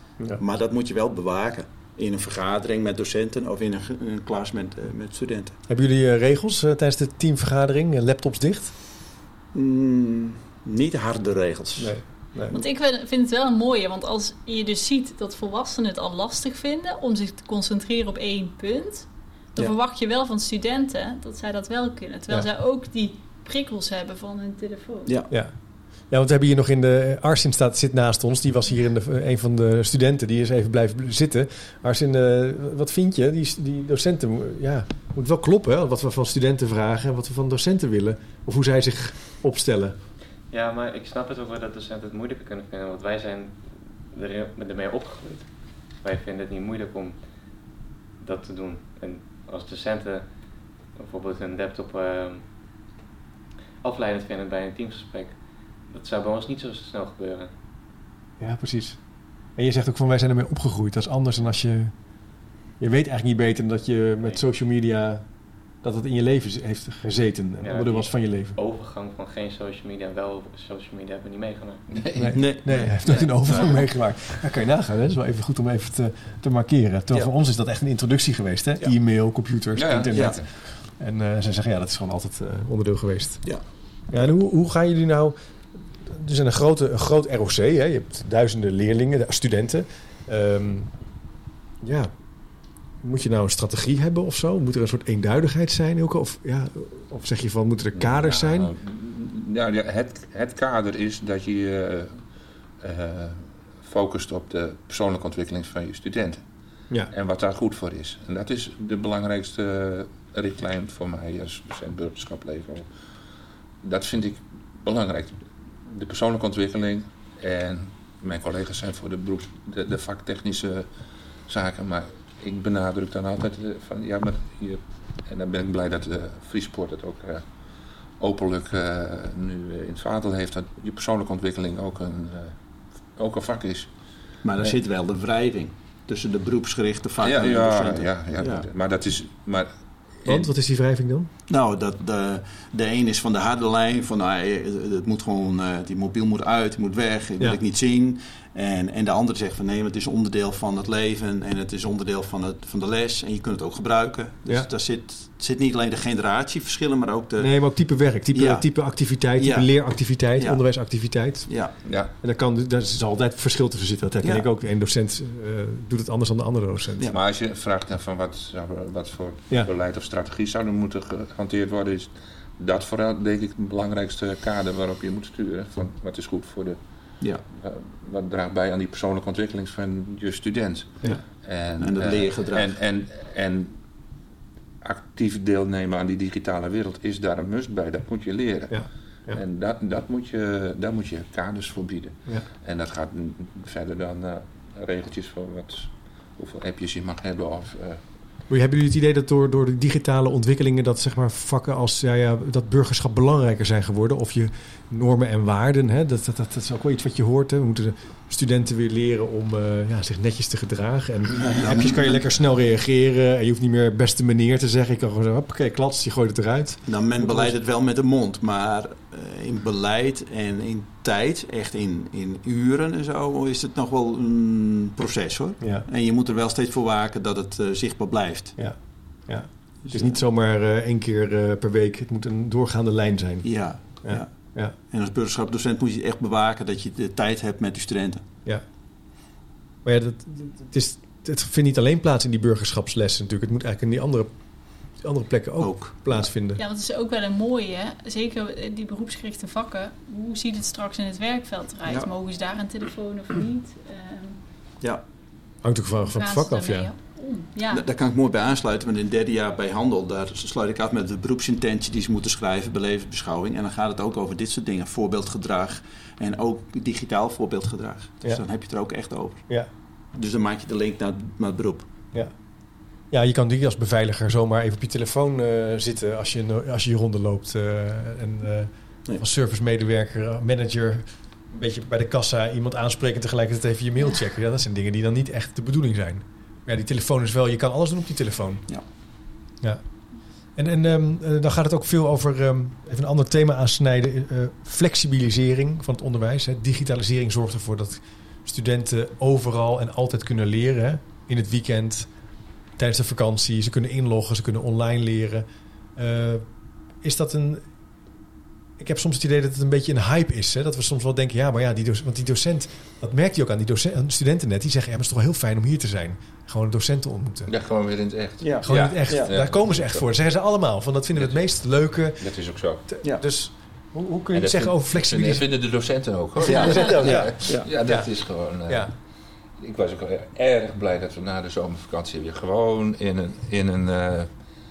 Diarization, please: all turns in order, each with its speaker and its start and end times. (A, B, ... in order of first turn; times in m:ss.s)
0:00.4-0:05.6 A
0:05.7-0:08.7 B
0:09.5-0:11.9 A
0:11.8-0:12.6 B
0:12.5-0:25.1 C
0:25.0-0:25.3 A
0:26.1-0:39.9 B
0:40.5-0:47.5 D
0:48.2-0:52.5 D
0:53.8-0:57.5 D
0:58.4-0:59.0 B
0:59.5-1:01.9 B
1:02.8-1:05.2 B
1:05.8-1:08.6 B
1:07.6-1:11.8 D
1:11.9-1:13.2 E
1:12.2-1:20.4 B
1:12.3-1:13.8 A
1:19.7-1:20.4 E
1:21.0-1:23.4 B
1:24.1-1:25.3 B
1:26.0-1:30.9 B
1:31.8-1:32.1 B
1:33.0-1:38.7 B
1:38.0-1:42.2 E
1:42.8-1:46.4 E
1:47.1-1:52.9 E
1:53.8-2:00.9 E
2:01.5-2:07.4 E
2:08.2-2:12.6 E
2:13.1-2:13.9 E
2:14.4-2:18.6 A
2:17.2-2:20.5 E
2:20.2-2:21.3 B
2:21.5-2:37.5 A
2:37.4-2:41.5 B
2:38.3-2:38.6 A
2:39.4-2:39.7 A
2:41.5-2:41.7 A
2:41.8-2:42.1 E
2:42.2-2:47.1 B
2:47.1-2:56.8 E
2:57.5-3:03.8 E
3:01.8-3:02.7 A
3:04.8-3:18.0 E
3:08.7-3:09.4 B
3:18.5-3:37.5 B
3:31.4-3:31.9 A
3:36.8-3:48.6 A
3:45.6-3:45.8 B
3:48.6-3:54.8 B
3:49.8-3:50.1 A
3:53.4-3:54.3 A
3:54.8-3:58.2 A
3:59.8-4:04.3 B
4:05.0-4:06.6 B
4:05.6-4:06.2 A
4:06.6-4:14.4 C
4:15.6-4:16.9 B
4:16.0-4:17.8 C
4:17.7-4:29.4 A
4:30.1-4:31.9 A
4:33.1-4:48.6 B
4:50.6-5:02.1 B
5:02.8-5:05.4 B
5:06.0-5:06.4 B
5:07.0-5:07.6 B
5:08.8-5:17.5 B
5:17.5-5:20.0 E
5:18.4-5:19.3 A
5:18.6-5:22.2 B
5:21.1-5:22.8 E
5:22.9-5:25.5 B
5:24.3-5:28.9 E
5:26.4-5:28.9 B
5:26.4-5:27.7 A
5:29.6-5:34.3 E